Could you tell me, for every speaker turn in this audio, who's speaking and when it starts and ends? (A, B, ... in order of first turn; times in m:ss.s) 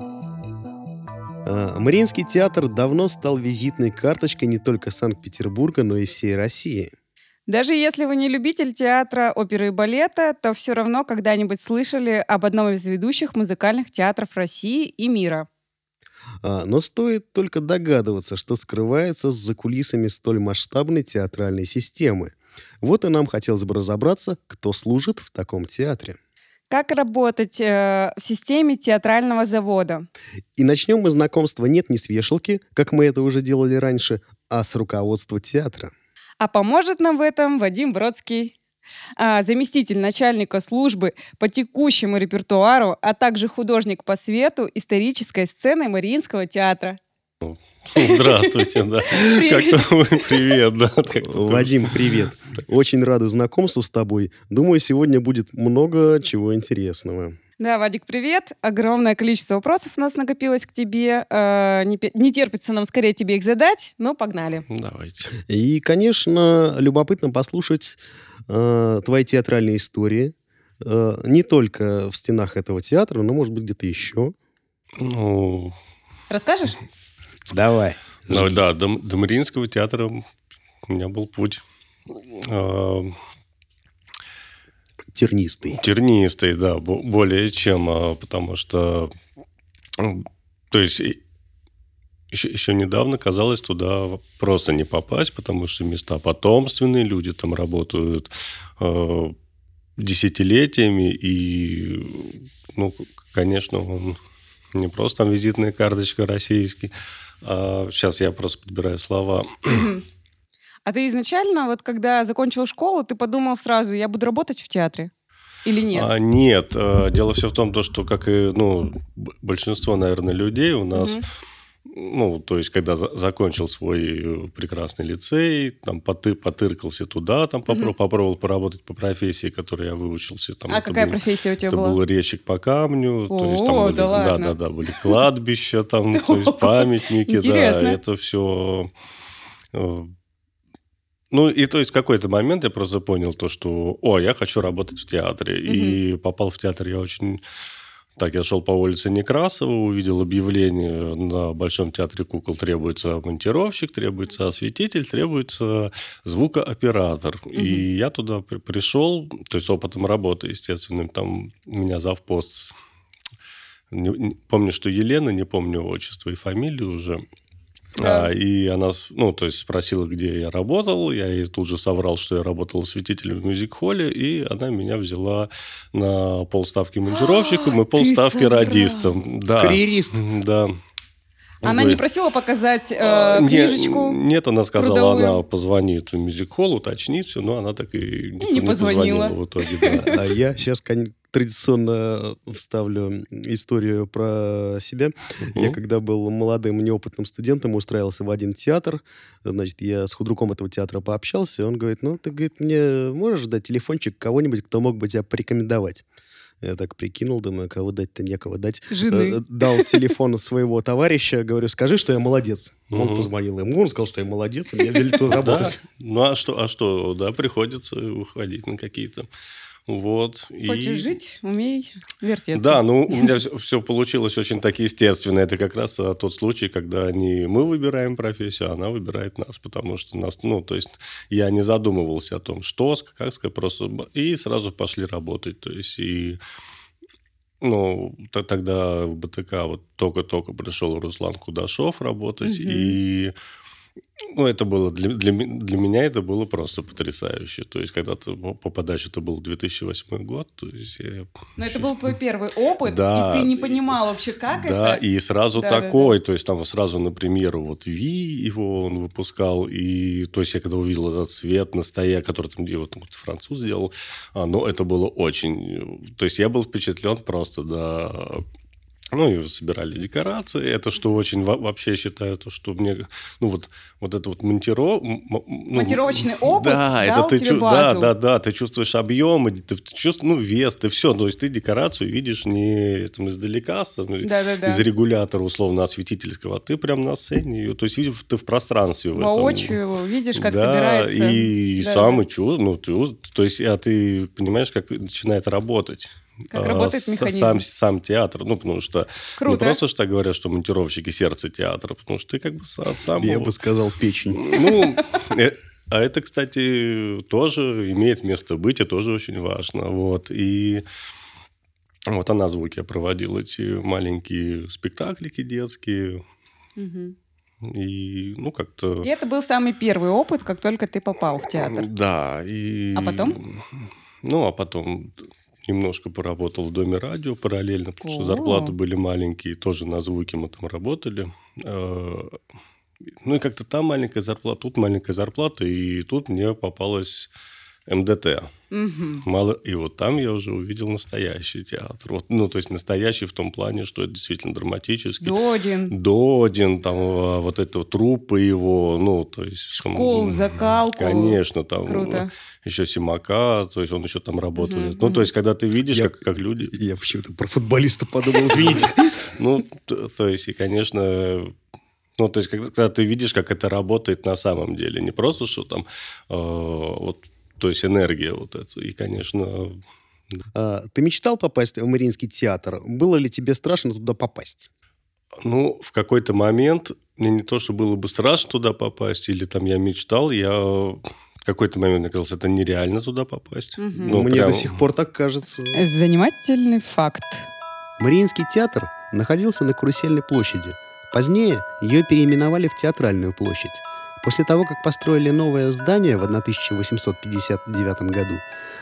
0:01.4-0:06.9 A
0:07.5-0:15.5 B
0:16.4-0:26.2 A
0:26.7-0:30.1 B
0:30.6-0:35.9 A
0:36.4-0:38.5 B
0:39.2-0:47.0 B
0:47.4-0:52.0 C
0:48.0-0:50.4 B
0:51.2-0:57.3 A
0:57.6-1:04.6 B
1:04.7-1:05.3 C
1:05.5-1:14.3 A
1:15.0-1:15.8 C
1:16.3-1:16.8 B
1:17.5-1:18.6 A
1:18.3-1:20.2 C
1:20.8-1:23.2 C
1:25.1-1:25.8 A
1:25.7-1:29.1 C
1:30.0-1:31.2 C
1:32.3-1:39.3 C
1:40.0-1:44.2 C
1:44.7-1:49.9 C
1:49.7-1:50.0 B
1:50.8-1:55.1 B
1:55.6-1:56.1 B
1:55.9-2:01.2 C
2:00.9-2:01.2 B
2:01.8-2:18.9 C
2:10.7-2:12.0 B
2:13.3-2:15.2 B
2:16.1-2:18.0 B
2:19.7-2:20.1 C
2:21.3-2:27.4 C
2:25.6-2:26.0 B
2:28.2-2:42.7 C
2:37.5-2:37.8 B
2:43.9-2:47.2 C
2:48.0-2:48.3 B
2:48.0-3:00.7 C
2:57.1-2:59.1 B
2:59.6-3:00.2 A
3:01.6-3:02.0 C
3:01.6-3:04.2 B
3:03.0-3:10.3 C
3:04.8-3:05.4 B
3:08.4-3:10.2 B
3:10.1-3:26.0 A
3:15.4-3:15.8 C
3:26.6-3:35.8 A
3:28.9-3:30.0 B
3:32.9-3:33.3 C
3:35.2-3:39.3 C
3:39.9-3:41.1 C
3:40.6-3:43.2 B
3:42.5-3:56.4 C
3:57.6-4:03.3 C
4:02.4-4:03.0 B
4:04.3-4:12.0 C
4:11.6-4:15.0 B
4:12.8-4:14.0 C
4:14.5-4:28.4 C
4:15.6-4:16.1 B
4:29.1-4:49.8 C
4:35.7-4:38.1 B
4:44.2-4:44.8 B
4:49.1-4:52.2 B
4:50.3-5:03.5 C
4:56.5-4:57.6 B
4:59.4-4:59.8 B
5:03.2-5:04.6 A
5:04.3-5:10.8 C
5:04.7-5:05.0 B
5:12.1-5:16.2 C
5:16.8-5:17.1 B
5:17.6-5:19.1 C
5:19.0-5:21.9 B
5:21.6-5:32.4 C
5:22.9-5:23.4 B
5:28.0-5:28.7 B
5:33.2-5:37.3 C
5:37.9-5:38.5 C
5:38.7-5:39.2 B
5:39.2-5:45.3 C
5:45.2-5:45.9 B
5:45.9-5:56.7 C
5:49.7-5:52.3 B
5:54.6-5:55.3 B
5:55.9-5:56.2 A
5:56.7-5:59.3 A
5:58.5-6:01.5 C
6:02.2-6:09.8 C
6:10.5-6:14.7 A
6:15.4-6:24.8 C
6:23.8-6:24.2 B
6:24.0-6:25.8 A
6:25.7-6:27.5 B
6:28.0-6:38.4 A